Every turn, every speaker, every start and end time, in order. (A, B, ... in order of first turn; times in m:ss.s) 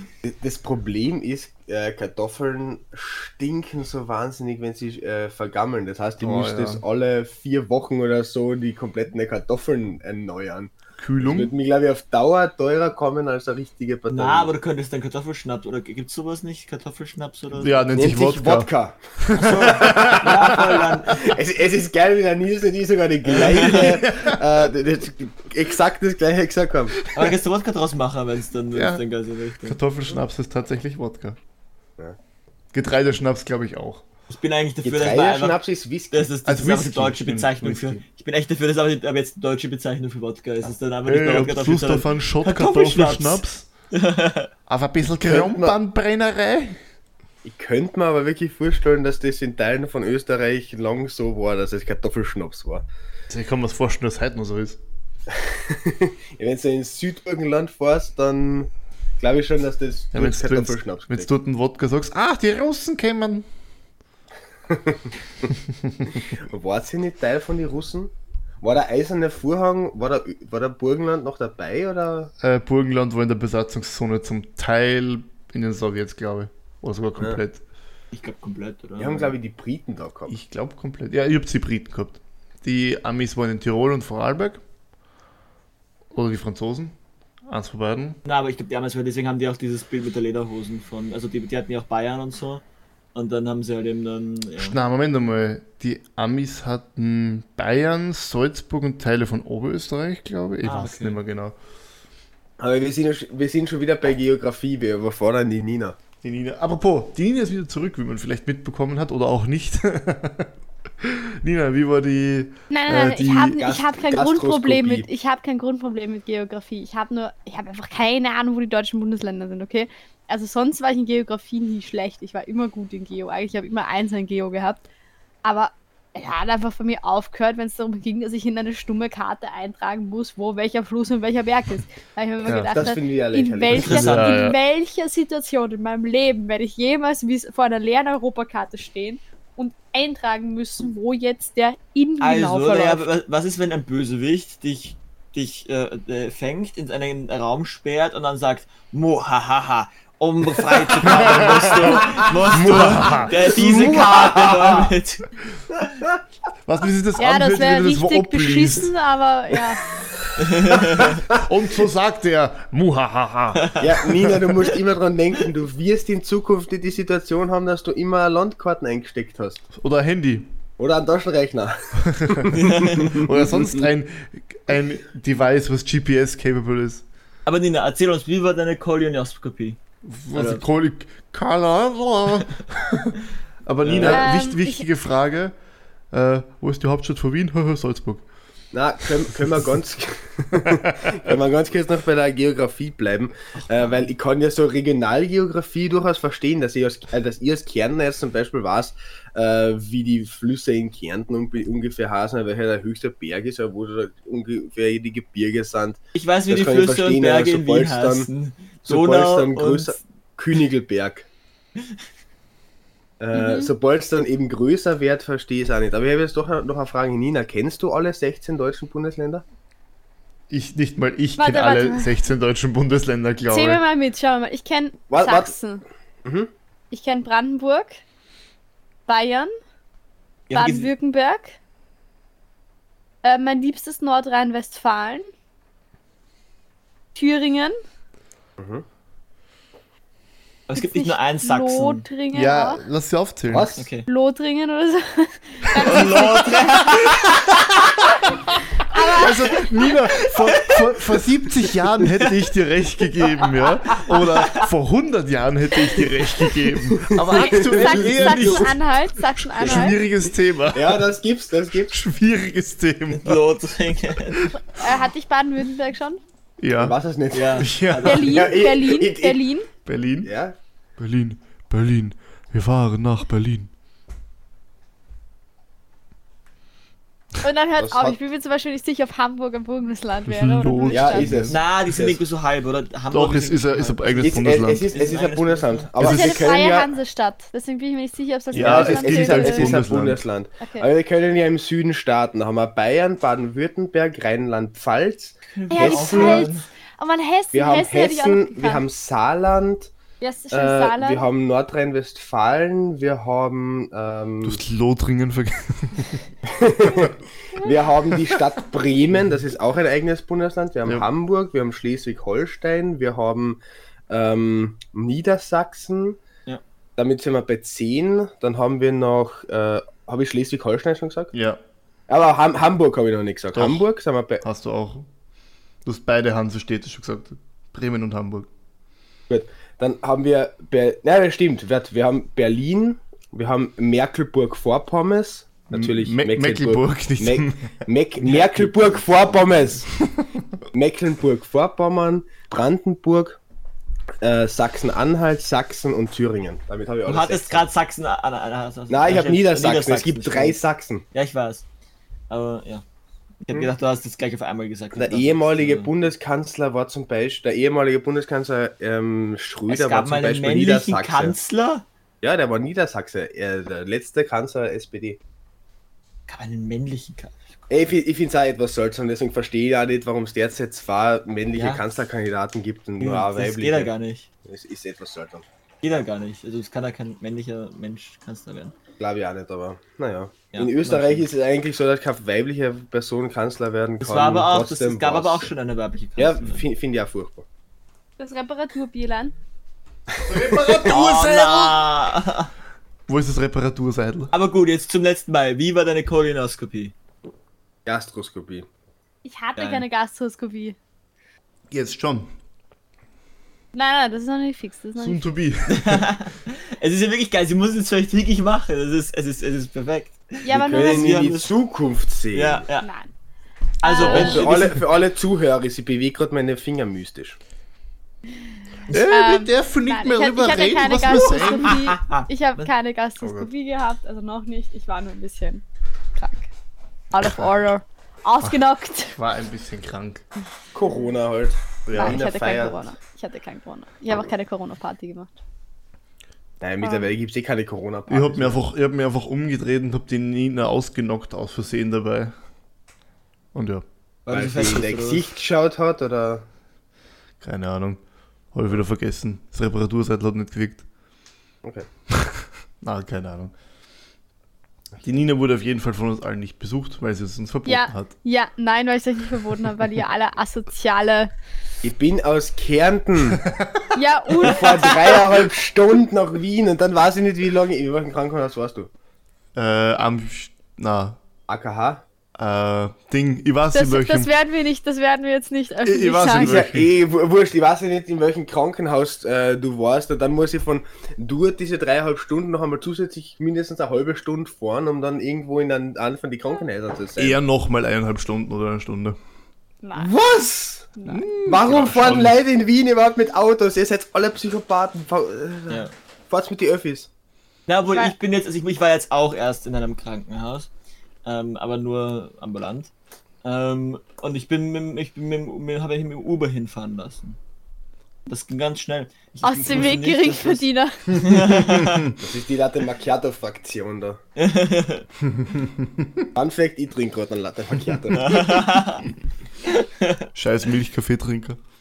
0:00.2-0:14.5 A
0:06.2-0:06.8 B
0:11.0-0:11.5 B
0:14.1-0:17.9 C
0:17.5-0:18.7 B
0:17.9-0:27.0 A
0:19.2-0:20.8 B
0:19.3-0:21.2 C
0:23.2-0:24.0 C
0:23.6-0:24.4 B
0:27.1-0:29.8 C
0:28.7-0:29.0 B
0:29.6-0:31.4 B
0:32.7-0:34.0 B
0:34.3-0:35.6 C
0:34.8-0:36.3 A
0:36.1-0:44.5 C
0:36.4-0:38.0 B
0:41.0-0:43.6 B
0:44.7-0:46.8 B
0:45.2-0:45.8 A
0:47.4-0:52.8 A
0:53.3-0:54.8 B
0:55.3-0:58.7 A
0:59.2-1:01.3 A
1:00.1-1:03.4 B
1:04.7-1:05.5 A
1:05.5-1:06.2 B
1:06.3-1:12.3 A
1:12.4-1:17.6 B
1:18.1-1:19.3 C
1:19.0-1:20.4 A
1:20.3-1:24.6 B
1:26.1-1:26.9 B
1:27.5-1:28.2 B
1:28.2-1:32.6 C
1:33.1-1:34.8 C
1:34.6-1:41.5 B
1:40.6-1:41.2 C
1:42.6-1:46.0 A
1:46.2-1:53.6 B
1:52.7-2:04.8 D
1:53.6-1:55.1 A
2:05.4-2:23.1 D
2:12.4-2:12.7 B
2:12.7-2:14.2 A
2:13.8-2:14.3 C
2:13.8-2:14.6 B
2:22.2-2:35.3 C
2:31.0-2:33.5 B
2:31.1-2:34.9 A
2:36.6-2:38.9 B
2:37.2-2:39.8 D
2:40.4-2:41.2 C
2:41.3-2:44.3 B
2:43.8-2:49.6 A
2:49.7-2:50.5 B
2:50.8-2:53.9 A
2:52.0-2:52.6 B
2:52.5-2:53.2 C
2:53.1-2:57.0 B
2:57.4-2:59.8 C
3:00.0-3:05.5 B
3:00.3-3:00.6 C
3:03.8-3:04.3 C
3:04.1-3:04.8 D
3:06.1-3:08.2 B
3:08.7-3:28.3 A
3:10.6-3:11.3 B
3:26.1-3:30.0 C
3:28.8-3:31.3 A
3:33.2-3:39.4 A
3:33.3-3:33.7 D
3:40.5-3:43.8 B
3:41.4-3:42.1 D
3:43.5-3:45.8 D
3:45.1-3:45.5 A
3:46.2-3:46.5 A
3:46.9-3:48.0 D
3:49.1-3:49.5 D
3:50.5-3:50.9 C
3:50.5-3:51.6 D
3:53.2-3:55.2 D
3:57.1-3:57.8 D
3:58.6-3:58.8 A
4:00.7-4:02.0 C
4:00.7-4:02.8 D
4:02.3-4:03.7 B
4:03.5-4:03.9 A
4:03.8-4:04.1 C
4:04.1-4:06.9 D
4:05.8-4:07.4 C
4:08.5-4:18.8 B
4:08.8-4:09.6 D
4:12.1-4:12.4 C
4:14.1-4:14.6 C
4:17.0-4:18.7 A
4:17.3-4:20.0 D
4:19.4-4:21.0 B
4:20.7-4:22.0 A
4:21.9-4:23.4 B
4:23.1-4:24.4 C
4:24.2-4:24.5 B
4:24.6-4:26.2 D
4:26.6-4:27.0 B
4:26.8-4:29.4 A
4:27.3-4:28.4 C
4:27.6-4:28.5 B
4:28.0-4:29.7 D
4:29.8-4:30.3 B
4:30.2-4:30.5 A
4:31.0-4:33.7 B
4:37.4-4:41.3 D
4:37.8-4:38.2 A
4:40.3-4:41.6 B
4:40.9-4:42.2 A
4:41.5-4:45.9 C
4:43.1-4:44.9 B
4:44.2-4:46.9 A
4:46.0-4:46.5 B
4:46.0-4:49.7 D
4:48.5-4:50.2 B
4:48.5-4:56.5 A
4:50.6-4:50.9 D
4:55.5-4:56.6 C
4:55.7-4:58.8 D
4:57.5-4:59.9 A
5:00.2-5:01.2 D
5:00.5-5:04.6 A
5:04.4-5:06.2 B
5:06.4-5:13.6 A
5:14.1-5:16.2 A
5:17.0-5:21.3 A
5:21.3-5:21.6 B
5:22.1-5:24.4 A
5:23.5-5:23.8 B
5:24.4-5:25.0 B
5:25.8-5:28.5 B
5:29.3-5:39.9 A
5:35.7-5:37.7 B
5:38.2-5:39.0 C
5:40.7-5:43.4 A
5:44.2-5:47.6 A
5:47.0-5:50.6 C
5:48.9-5:51.0 A
5:51.1-5:51.6 C
5:52.3-5:52.8 C
5:53.4-5:55.9 C
5:54.9-6:01.4 A
5:59.7-6:01.8 C
6:02.2-6:05.2 A
6:06.3-6:07.5 C
6:07.7-6:13.9 A
6:11.5-6:11.8 C
6:13.0-6:14.3 C
6:14.4-6:15.4 A
6:15.8-6:18.7 C
6:19.0-6:25.5 A
6:20.5-6:21.2 C
6:24.0-6:26.6 C
6:26.2-6:27.4 A
6:28.2-6:29.3 D
6:30.1-6:30.9 A
6:30.2-6:31.8 B
6:30.8-6:32.5 C
6:33.1-6:34.3 B
6:34.3-6:36.9 C
6:37.8-6:38.6 A
6:39.2-6:40.8 D
6:39.6-6:39.8 C
6:41.7-6:42.3 B
6:43.7-6:45.3 D
6:45.0-6:46.1 B
6:45.7-6:51.5 C
6:50.4-6:51.1 D
6:50.5-6:52.6 A
6:52.3-6:52.9 C
6:52.8-6:53.1 D
6:53.8-6:54.5 D
6:53.8-6:54.8 C
6:54.0-6:57.4 A
6:58.9-7:01.8 B
6:58.9-7:05.6 D
7:01.1-7:02.7 C
7:06.2-7:06.5 D
7:07.1-7:09.2 D
7:09.1-7:10.2 B
7:10.7-7:12.8 A
7:11.9-7:12.2 B
7:11.9-7:15.3 D
7:16.6-7:18.6 A
7:16.8-7:17.1 D
7:18.1-7:22.3 B
7:23.5-7:23.8 B
7:24.2-7:25.3 C
7:24.3-7:26.4 A
7:27.4-7:28.0 B
7:28.5-7:30.8 B
7:32.1-7:33.5 B
7:35.0-7:38.1 B
7:37.6-7:41.3 D
7:41.8-7:43.4 A
7:43.3-7:43.8 B
7:43.9-7:45.2 D
7:44.4-7:48.9 A
7:49.6-7:51.2 B
7:51.5-7:52.0 A
7:52.4-7:54.3 B
7:53.7-7:56.5 D
7:55.8-7:56.9 B
7:56.3-8:07.4 A
8:07.2-8:09.2 B
8:09.8-8:10.1 D
8:09.9-8:10.9 A
8:11.0-8:11.2 D
8:11.0-8:12.4 B
8:11.4-8:17.1 A
8:17.7-8:20.7 C
8:21.2-8:22.9 C
8:23.4-8:27.4 C
8:28.3-8:32.1 C
8:29.4-8:31.0 D
8:31.1-8:32.2 B
8:32.2-8:34.2 A
8:34.4-8:35.1 C
8:35.3-8:36.2 B
8:36.3-8:38.6 A
8:38.1-8:39.1 C
8:39.6-8:40.3 C
8:40.3-8:41.6 B